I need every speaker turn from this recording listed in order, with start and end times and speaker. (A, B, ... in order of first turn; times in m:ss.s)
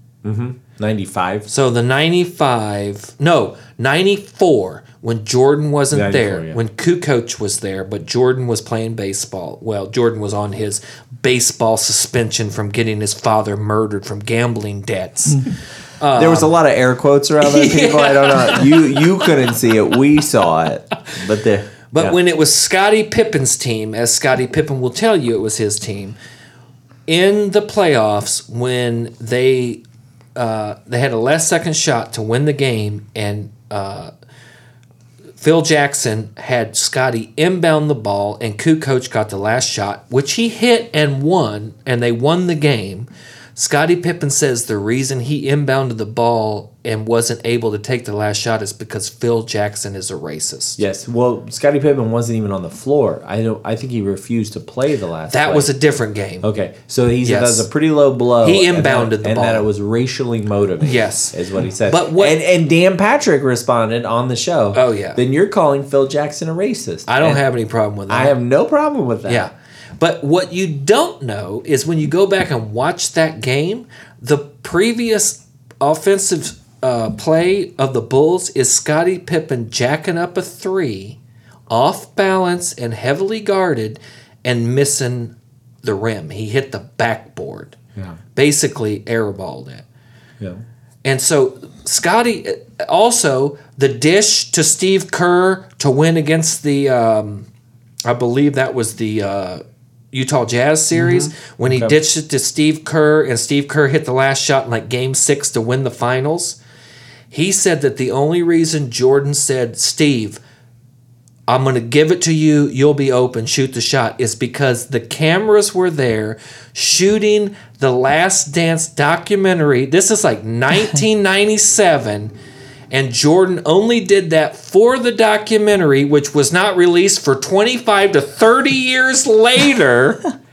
0:00.2-0:01.5 A
0:01.5-0:16.5 B
0:05.9-0:06.6 A
0:16.1-0:22.2 A
0:17.4-0:19.5 B
0:21.9-0:26.2 B
0:27.1-0:29.8 B
0:30.3-0:34.1 B
0:35.4-0:50.8 B
0:50.8-0:55.7 A
0:55.3-0:56.5 B
0:56.4-1:07.4 A
0:57.2-0:57.7 B
0:58.4-0:59.7 B
1:00.8-1:01.3 B
1:01.9-1:02.4 B
1:04.7-1:05.2 B
1:07.1-1:08.3 B
1:08.1-1:09.5 A
1:09.3-1:21.2 B
1:21.7-1:27.8 B
1:28.3-1:29.8 B
1:31.0-1:37.5 B
1:38.0-1:46.6 B
1:40.9-1:42.0 A
1:47.3-1:50.4 B
1:51.5-2:02.3 B
2:02.9-2:10.2 B